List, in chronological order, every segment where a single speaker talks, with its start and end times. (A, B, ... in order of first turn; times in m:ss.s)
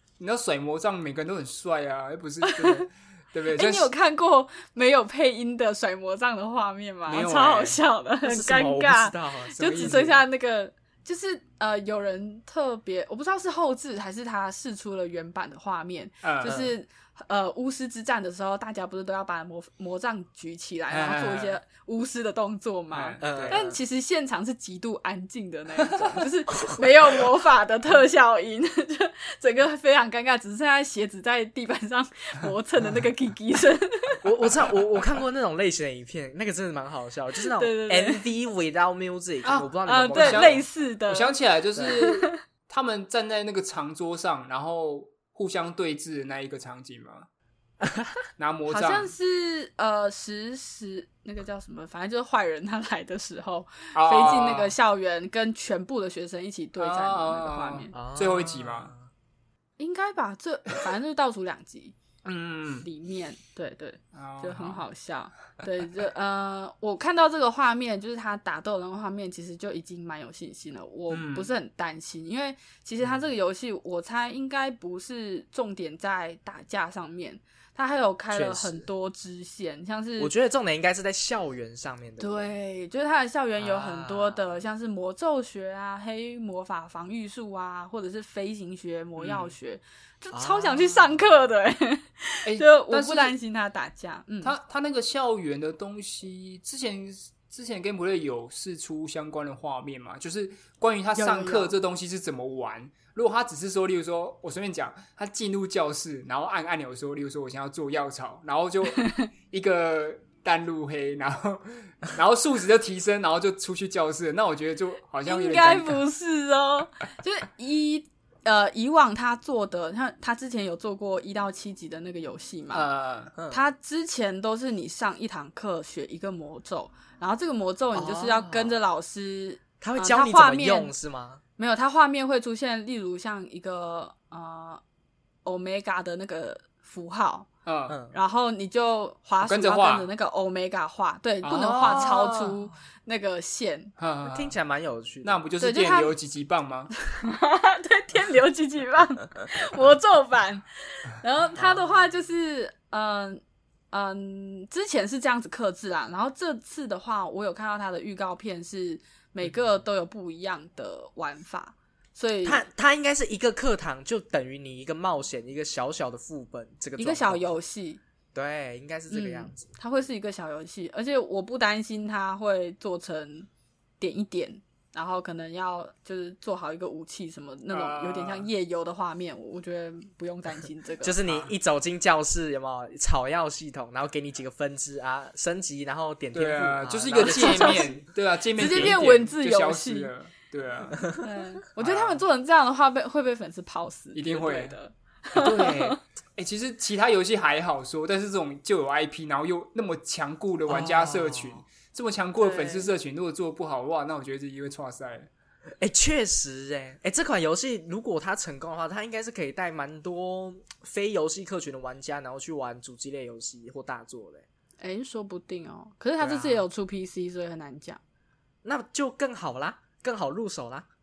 0:00.2-0:03.9 A
0:02.4-0:02.8 B
0:03.5-0:34.2 B
0:07.1-0:07.8 A
0:08.2-0:10.1 C
0:09.6-0:10.2 A
0:16.2-0:16.6 A
0:16.4-0:16.7 C
0:20.9-0:21.6 A
0:22.9-0:23.7 A
0:23.2-0:23.8 C
0:34.2-0:40.6 C
0:37.5-0:38.2 B
0:39.4-0:47.3 A
0:39.9-0:42.4 B
0:47.8-0:48.2 C
0:48.4-0:49.1 A
0:48.7-0:57.9 B
0:53.9-0:54.7 A
0:56.8-0:58.9 A
0:57.9-0:59.1 C
0:59.8-1:02.0 B
1:02.2-1:02.9 A
1:02.8-1:20.3 B
1:04.1-1:04.8 A
1:11.1-1:11.5 A
1:18.3-1:18.9 C
1:20.2-1:22.5 C
1:22.2-1:34.6 B
1:23.6-1:24.5 C
1:29.2-1:29.6 A
1:30.3-1:31.2 C
1:32.4-1:33.4 A
1:34.4-1:56.0 A
1:41.1-1:41.7 B
1:49.0-1:49.3 B
1:55.3-2:02.9 B
2:02.7-2:03.3 A
2:03.4-2:03.6 C
2:03.5-2:10.9 B
2:07.9-2:08.8 C
2:09.8-2:11.4 C
2:11.6-2:14.8 B
2:15.4-2:17.5 B
2:17.6-2:18.0 A
2:17.9-2:18.2 C
2:18.1-2:23.9 B
2:19.4-2:20.1 A
2:21.4-2:22.5 A
2:21.8-2:22.5 C
2:24.0-2:24.5 A
2:24.2-2:25.4 C
2:25.2-2:26.9 A
2:25.6-2:26.1 B
2:26.9-2:42.6 B
2:31.6-2:31.9 C
2:42.4-2:47.4 C
2:47.0-2:48.0 B
2:48.3-2:49.6 C
2:49.1-2:53.5 B
2:54.0-3:01.2 B
2:57.7-2:58.5 A
3:01.0-3:08.0 C
3:01.2-3:01.5 A
3:06.3-3:11.1 A
3:07.2-3:08.0 B
3:08.6-3:10.1 B
3:11.2-3:16.0 B
3:11.8-3:12.2 A
3:14.1-3:14.8 A
3:15.3-3:25.3 A
3:20.7-3:21.6 C
3:22.4-3:22.9 B
3:25.8-3:34.4 C
3:34.8-3:38.0 B
3:36.2-3:36.6 A
3:38.6-3:40.9 C